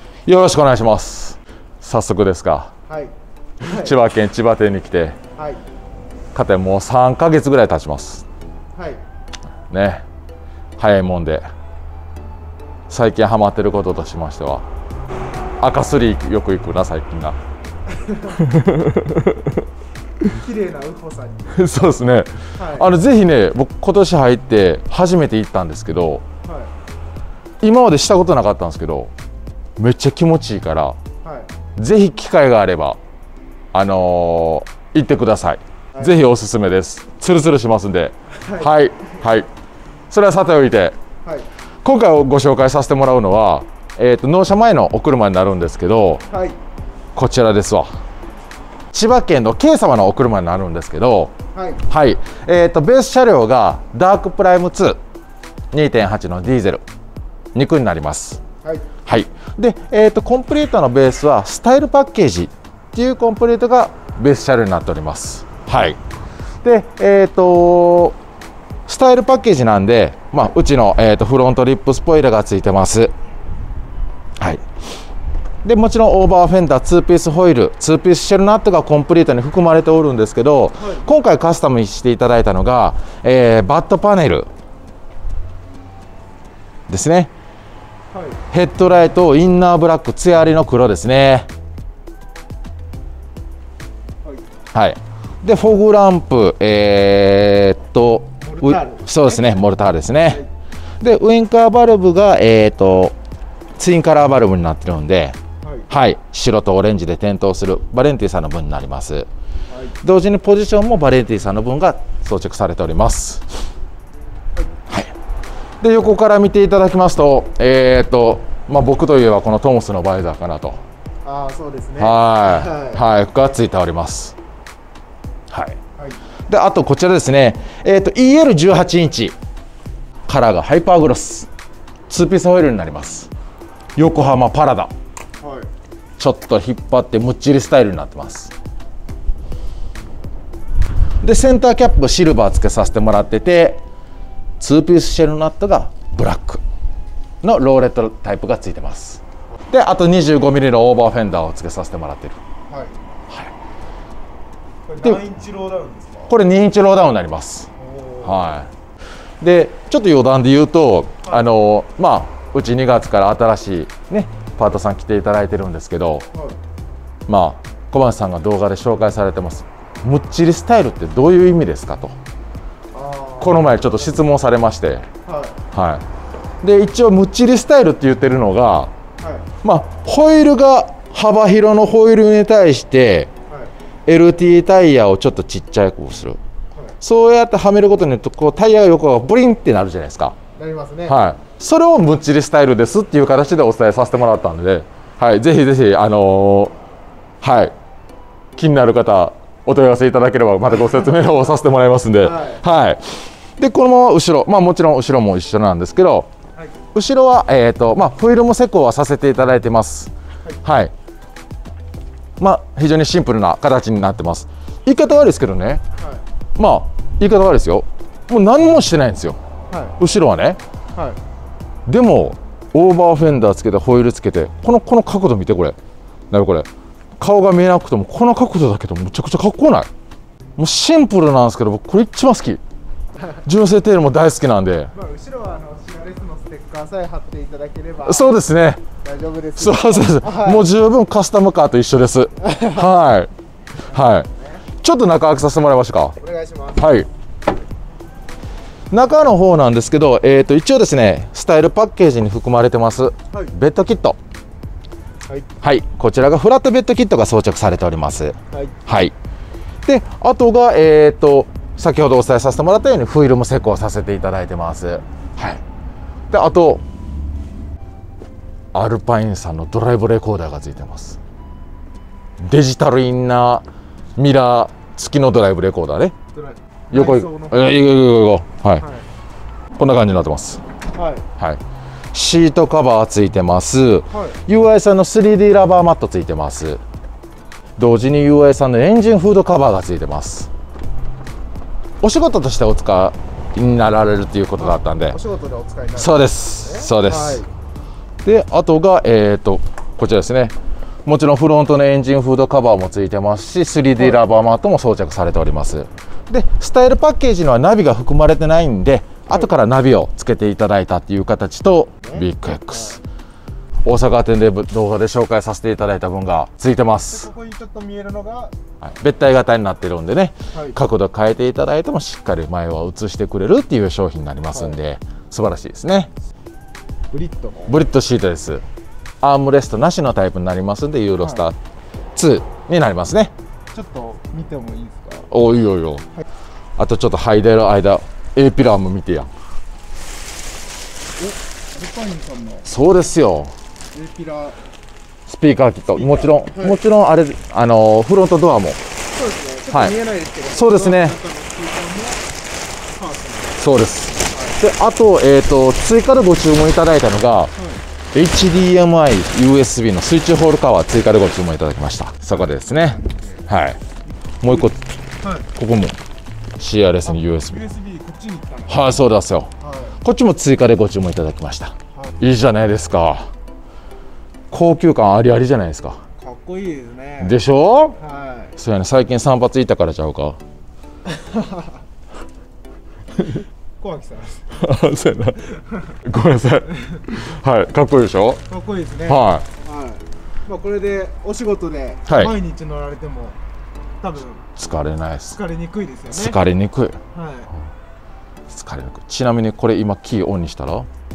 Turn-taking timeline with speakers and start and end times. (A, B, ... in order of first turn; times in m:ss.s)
0:00.2-0:02.7 A
0:02.9-0:04.0 B
0:03.6-0:05.2 A
0:05.4-0:05.6 B
0:06.3-0:08.2 A
0:08.7-0:09.0 B
0:09.7-0:10.0 A
0:10.8-0:11.5 A
0:12.9-0:14.6 A
0:15.6-0:17.4 A
0:17.9-0:18.4 B
0:18.3-0:19.6 A
0:20.3-0:21.6 B
0:21.5-0:26.2 A
0:22.6-0:22.9 B
0:26.4-0:26.7 B
0:27.6-0:29.1 A
0:29.8-0:31.0 A
0:31.2-0:31.5 B
0:31.8-0:33.0 A
0:33.7-0:39.5 A
0:38.4-0:38.7 B
0:40.1-0:41.0 A
0:41.8-0:46.2 A
0:46.3-0:46.6 B
0:47.1-0:47.9 A
0:48.9-0:51.3 A
0:51.5-0:51.8 B
0:51.8-0:55.0 A
0:55.7-0:56.8 A
0:57.5-0:58.4 A
0:58.6-0:58.9 B
0:59.0-1:06.0 A
1:06.6-1:08.2 A
1:08.9-1:13.1 A
1:14.4-1:14.6 A
1:15.6-1:24.5 A
1:26.9-1:27.3 A
1:28.1-1:28.4 B
1:28.5-1:31.5 A
1:34.7-1:40.4 A
1:38.4-1:39.6 B
1:41.0-1:43.2 A
1:43.8-1:45.4 A
1:45.9-1:49.3 A
1:49.7-1:50.0 B
1:50.0-1:53.4 A
1:55.8-2:00.8 A
2:01.2-2:03.0 B
2:02.0-2:04.4 A
2:05.5-2:05.8 A
2:06.5-2:09.3 A
2:10.3-2:11.5 A
2:12.1-2:13.3 A
2:14.0-2:14.9 A
2:15.4-2:15.7 B
2:16.2-2:18.5 A
2:21.2-2:23.8 A
2:24.6-2:26.6 A
2:27.4-2:32.4 A
2:32.7-2:33.0 B
2:34.8-2:36.4 B
2:36.3-2:37.7 A
2:37.8-2:38.5 B
2:38.2-2:38.7 A
2:39.4-2:46.3 A
2:46.3-2:46.6 B
2:47.3-2:52.2 A
2:52.9-2:54.0 B
2:53.4-2:55.1 A
2:55.2-2:55.6 B
2:55.7-2:56.0 A
2:56.6-2:58.9 A
2:59.2-2:59.5 B
2:59.6-3:03.3 A
3:04.1-3:06.4 A
3:07.0-3:10.4 A
3:10.6-3:11.2 B
3:11.1-3:16.7 A
3:17.4-3:17.7 A
3:18.6-3:26.3 A
3:22.2-3:22.6 B
3:26.9-3:30.9 A
3:32.4-3:35.8 A
3:36.0-3:36.2 B
3:36.6-3:39.4 A
3:39.7-3:40.0 B
3:40.0-3:40.6 A
3:41.9-3:45.8 A
3:46.3-3:46.7 A
3:47.2-3:49.9 A
3:50.6-3:52.6 A
3:53.3-3:54.9 A
3:54.9-3:58.3 B
3:58.0-3:58.8 A
3:59.0-4:00.7 B
3:59.6-4:03.3 A
4:02.4-4:02.8 B
4:03.8-4:04.3 A
4:04.8-4:06.2 A
4:06.2-4:06.8 B
4:06.8-4:07.1 A
4:08.9-4:14.2 A
4:15.6-4:19.1 A
4:19.8-4:25.6 A
4:26.3-4:26.8 A
4:28.7-4:31.2 A
4:32.4-4:33.6 A
4:34.2-4:36.2 A
4:36.3-4:37.6 B
4:36.9-4:38.8 A
4:38.8-4:39.1 B
4:39.8-4:40.6 A
4:40.9-4:41.3 B
4:42.1-4:46.8 A
4:44.1-4:44.4 B
4:47.8-4:50.5 A
4:52.0-4:55.2 A
4:54.6-4:57.5 B
4:56.0-4:57.4 A
4:58.2-5:13.0 A
5:13.8-5:17.3 A
5:17.0-5:18.6 B
5:18.8-5:26.1 A
5:27.1-5:27.8 B
5:27.7-5:28.6 A
5:29.2-5:31.6 A
5:31.2-5:31.4 B
5:32.2-5:33.3 A
5:33.7-5:35.3 B
5:35.3-5:36.1 A
5:36.8-5:39.3 A
5:41.2-5:42.7 B
5:42.6-5:43.5 A
5:43.9-5:44.6 B
5:45.3-5:48.8 A
5:45.9-5:46.8 B
5:49.1-5:52.2 B
5:50.5-5:51.2 A
5:52.9-5:53.6 B
5:53.6-5:57.5 A
5:54.3-5:54.6 B
5:57.6-5:57.8 B
5:58.1-6:03.8 A
6:02.3-6:03.4 B
6:04.4-6:04.8 A
6:05.2-6:05.5 B
6:05.5-6:06.0 A
6:06.6-6:07.6 A
6:07.1-6:09.0 B
6:08.7-6:13.3 A
6:09.6-6:10.0 B
6:14.5-6:16.0 A
6:16.2-6:17.4 B
6:17.2-6:18.0 A
6:18.0-6:18.6 B
6:18.6-6:20.4 A
6:21.1-6:21.7 B
6:23.8-6:24.5 B
6:24.5-6:28.4 A
6:28.5-6:33.4 B
6:29.0-6:29.5 A
6:32.1-6:32.3 A
6:34.0-6:34.5 B
6:34.6-6:35.4 A
6:35.3-6:36.4 B
6:36.1-6:37.0 A
6:37.1-6:37.5 B
6:38.5-6:40.9 A